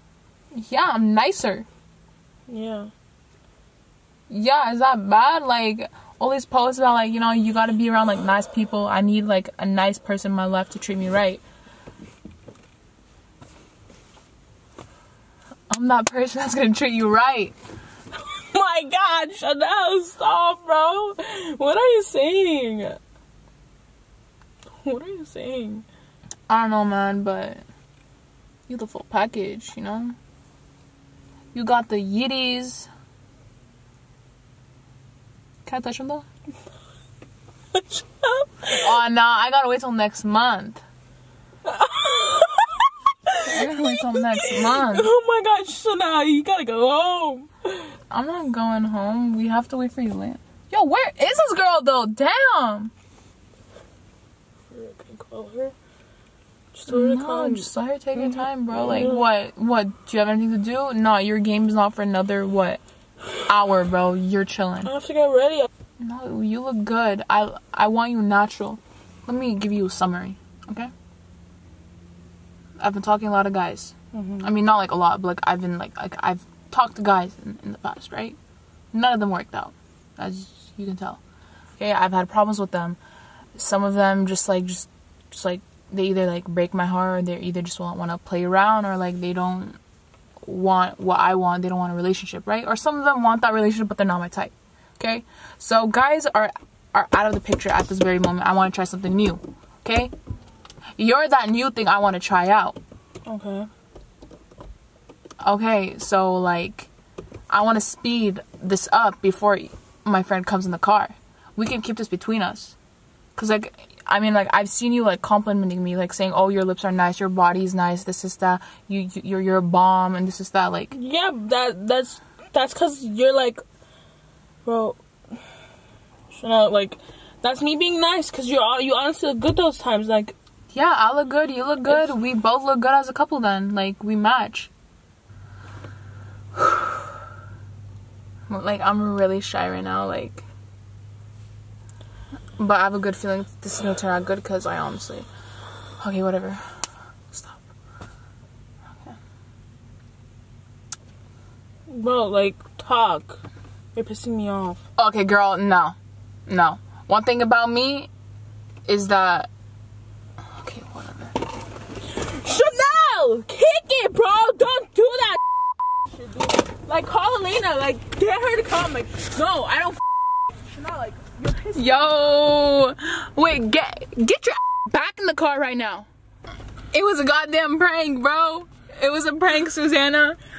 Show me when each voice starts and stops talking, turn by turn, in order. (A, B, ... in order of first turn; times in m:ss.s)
0:00.5-0:01.7 A
0:02.5-0:02.9 B
0:04.3-0:11.4 A
0:15.7-0:17.6 A
0:18.2-0:23.0 B
0:24.8-0:25.8 B
0:26.5-0:27.6 A
0:28.7-0:30.2 A
0:31.5-0:32.9 A
0:35.7-0:36.3 A
0:37.7-0:38.7 B
0:38.7-0:40.8 A
0:41.6-0:47.9 B
0:43.4-0:45.1 A
0:48.1-0:52.9 A
0:54.7-0:55.7 B
0:56.7-0:59.3 B
0:56.9-1:02.8 A
1:03.4-1:04.9 A
1:04.8-1:05.7 B
1:06.0-1:10.9 A
1:12.8-1:18.4 A
1:14.1-1:14.5 B
1:18.9-1:21.2 A
1:21.8-1:23.0 A
1:23.6-1:29.8 A
1:30.4-1:40.1 A
1:41.0-1:42.8 A
1:43.2-1:43.7 B
1:45.4-1:46.9 A
1:47.5-1:52.8 A
1:53.4-2:01.0 A
2:00.9-2:03.6 B
2:04.6-2:05.0 B
2:06.3-2:10.4 B
2:10.7-2:14.7 A
2:18.5-2:20.4 A
2:22.6-2:25.3 A
2:26.0-2:26.8 A
2:27.3-2:27.6 A
2:31.9-2:33.4 B
2:34.0-2:34.8 B
2:35.0-2:36.0 A
2:36.5-2:38.1 A
2:38.9-2:39.5 A
2:40.5-2:41.4 A
2:42.0-2:45.4 B
2:46.0-2:52.0 B
2:51.7-2:56.1 A
2:56.9-3:00.4 A